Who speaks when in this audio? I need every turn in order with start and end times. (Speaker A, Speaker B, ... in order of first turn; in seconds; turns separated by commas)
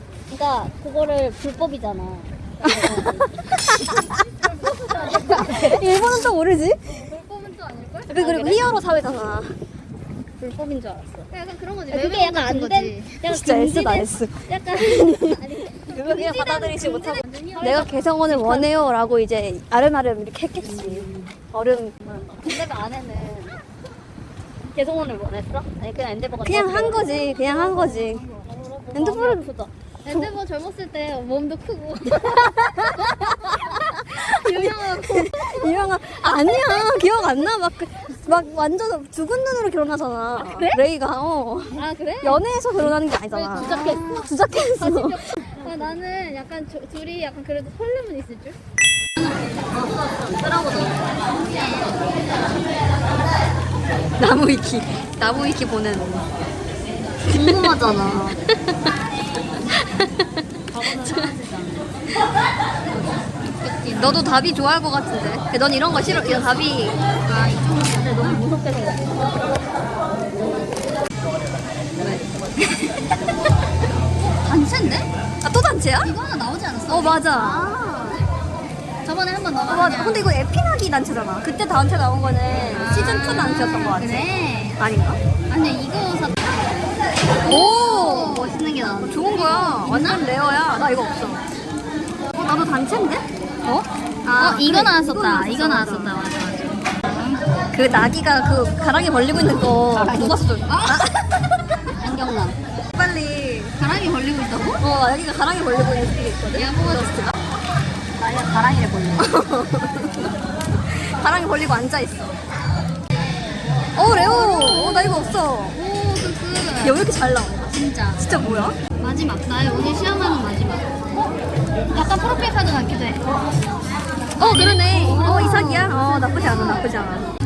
Speaker A: 0.3-3.8, Speaker B: 2.7-4.1, Speaker C: 3.9-6.3, Speaker A: 5.1-6.0, Speaker B: 5.5-6.8, Speaker C: 6.9-8.2, Speaker B: 8.1-9.6, Speaker A: 8.1-8.8, Speaker A: 10.4-11.3, Speaker C: 11.3-13.2, Speaker A: 11.9-15.4, Speaker B: 13.2-21.9, Speaker C: 15.0-18.7, Speaker A: 20.6-21.2, Speaker A: 22.1-23.5, Speaker C: 22.4-22.9, Speaker A: 24.7-29.7, Speaker B: 26.4-28.2, Speaker C: 27.0-28.4, Speaker B: 28.9-29.4, Speaker C: 30.0-37.2, Speaker B: 32.2-45.4, Speaker A: 40.4-40.8, Speaker C: 41.7-42.4, Speaker C: 43.3-48.6, Speaker A: 43.6-44.1, Speaker A: 49.7-51.2, Speaker C: 51.6-51.9, Speaker B: 54.2-56.3, Speaker A: 57.3-58.4, Speaker B: 57.3-57.7, Speaker C: 60.7-61.9, Speaker C: 63.5-64.3, Speaker B: 64.0-67.0, Speaker C: 66.0-68.4, Speaker A: 67.9-69.3, Speaker A: 72.0-72.7, Speaker C: 74.2-75.1, Speaker B: 75.4-76.1, Speaker C: 76.0-77.8, Speaker B: 76.9-77.8, Speaker A: 77.7-78.2, Speaker C: 79.0-80.3, Speaker B: 79.7-85.2, Speaker C: 82.7-84.8, Speaker C: 85.5-86.6, Speaker C: 87.4-90.3, Speaker B: 87.4-91.4, Speaker A: 88.3-89.2, Speaker B: 92.3-93.3, Speaker C: 93.7-97.4, Speaker B: 94.3-96.2, Speaker B: 97.7-101.8, Speaker A: 99.9-100.5, Speaker C: 100.7-101.0, Speaker A: 102.0-102.6, Speaker B: 102.9-103.7, Speaker C: 103.8-104.8, Speaker B: 104.8-107.3, Speaker C: 106.5-107.3, Speaker A: 108.2-109.3, Speaker B: 109.2-112.3, Speaker B: 114.0-115.8, Speaker C: 114.0-117.1, Speaker B: 116.8-118.8, Speaker C: 117.6-118.2, Speaker C: 119.0-120.9, Speaker C: 121.9-123.2, Speaker C: 124.4-126.9, Speaker B: 124.4-127.3